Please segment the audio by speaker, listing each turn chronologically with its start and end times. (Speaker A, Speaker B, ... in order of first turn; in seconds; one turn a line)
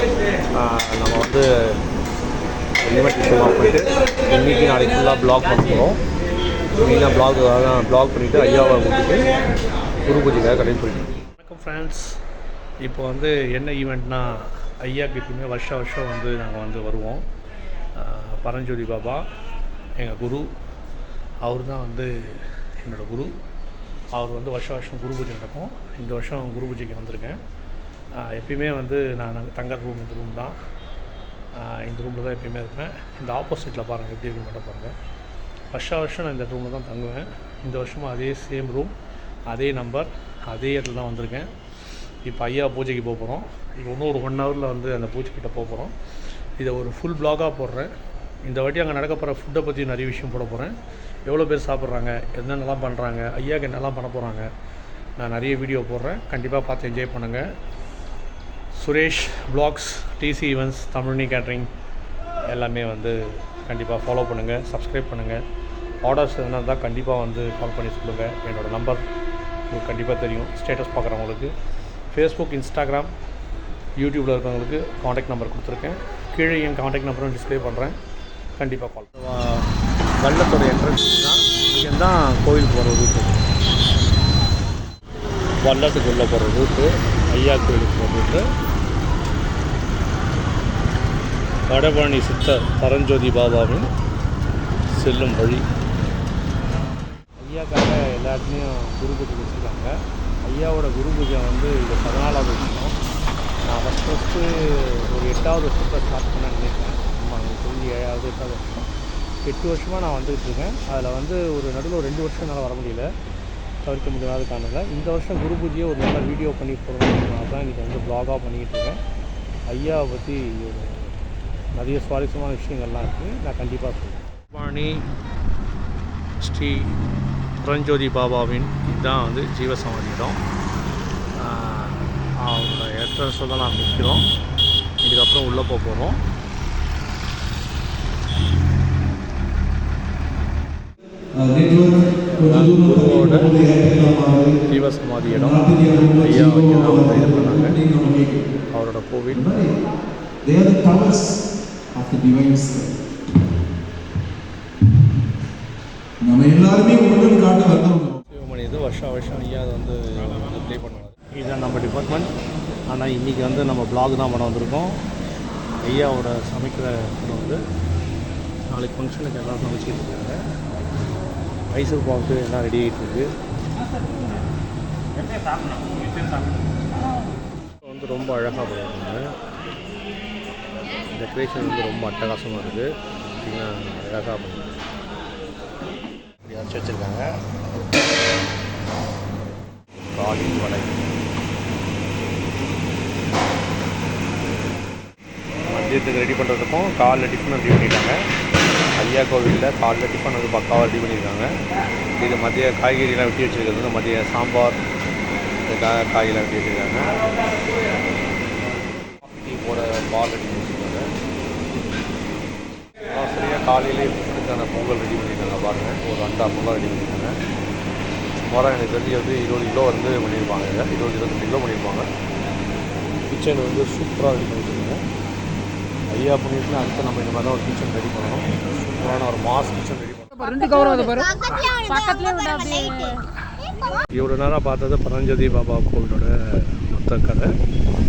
Speaker A: 0.5-1.5
Speaker A: 2.8-6.0
Speaker A: 6.8-9.3
Speaker A: 10.0-12.1
Speaker A: 12.8-17.2
Speaker A: 17.9-19.2
Speaker A: 20.0-20.5
Speaker A: 21.4-23.3
Speaker A: 24.1-27.4
Speaker A: 28.2-30.6
Speaker A: 31.6-34.9
Speaker A: 35.7-38.9
Speaker A: 39.5-41.5
Speaker A: 42.2-45.9
Speaker A: 46.6-47.9
Speaker A: 48.4-50.7
Speaker A: 51.2-54.5
Speaker A: 55.2-57.5
Speaker A: 58.8-61.7
Speaker A: 62.5-65.4
Speaker A: 66.0-69.0
Speaker A: 69.7-71.5
Speaker A: 72.1-73.1
Speaker A: 74.0-78.0
Speaker A: 78.6-79.7
Speaker A: 80.2-83.4
Speaker A: 85.6-88.4
Speaker A: 91.7-93.9
Speaker A: 94.9-95.6
Speaker A: 97.4-103.0
Speaker A: 103.7-108.9
Speaker A: 109.4-113.1
Speaker A: 113.8-119.0
Speaker A: 119.7-121.1
Speaker A: 121.7-125.0
Speaker A: 126.4-126.9
Speaker A: 127.6-130.4
Speaker A: 131.3-134.2
Speaker A: 135.0-136.2
Speaker B: 141.4-144.6
Speaker A: 142.4-143.5
Speaker A: 144.7-147.8
Speaker B: 145.3-148.4
Speaker A: 148.7-149.7
Speaker B: 149.3-149.8
Speaker B: 150.4-151.4
Speaker B: 151.9-152.9
Speaker B: 156.2-158.2
Speaker A: 158.3-162.3
Speaker A: 162.9-165.0
Speaker A: 165.8-167.6
Speaker A: 168.7-170.4
Speaker A: 171.7-173.3
Speaker A: 177.8-179.3
Speaker A: 181.1-184.8
Speaker A: 186.4-187.3
Speaker A: 190.0-191.1
Speaker A: 195.7-198.2
Speaker A: 199.0-201.5
Speaker A: 202.2-204.8
Speaker A: 205.7-207.3
Speaker A: 209.0-211.1
Speaker A: 213.1-217.3
Speaker A: 218.5-222.1
Speaker A: 223.3-225.0
Speaker A: 226.1-230.4
Speaker C: 230.3-233.2
Speaker A: 234.1-237.5